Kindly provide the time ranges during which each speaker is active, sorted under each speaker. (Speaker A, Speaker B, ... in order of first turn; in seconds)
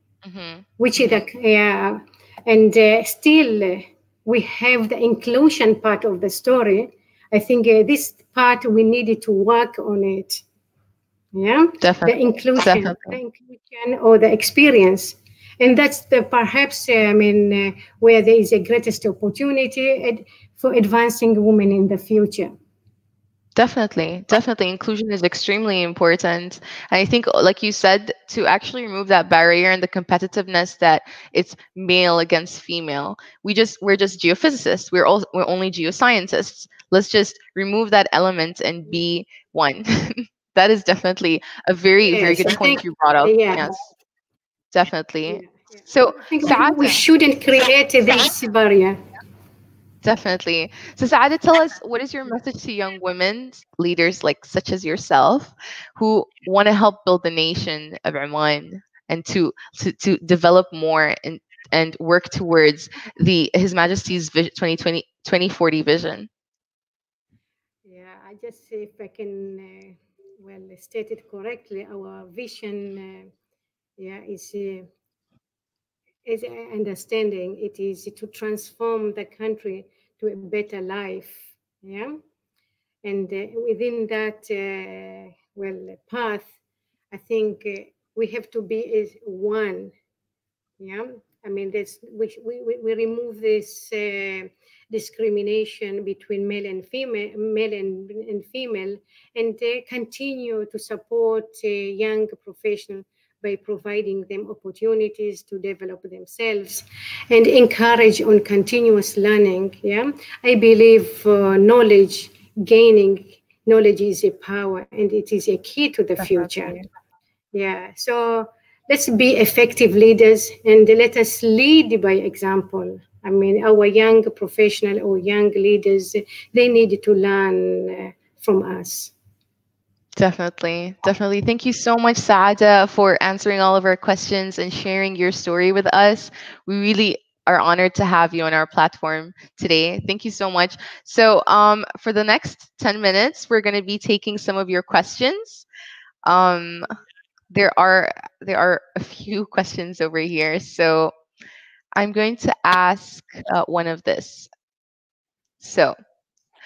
Speaker A: 0.2-1.2, 11.8-13.2, 23.6-43.8, 44.7-47.0, 50.0-66.3, 116.2-116.9, 130.2-145.7, 146.2-146.9, 147.5-151.1, 152.0-154.5, 155.6-156.0
Speaker B: 0.8-10.4, 11.3-22.5, 42.0-43.7, 45.2-49.0, 67.8-73.3, 74.0-74.9, 76.2-82.2, 83.0-86.5, 87.1-89.9, 90.8-116.8, 117.5-129.1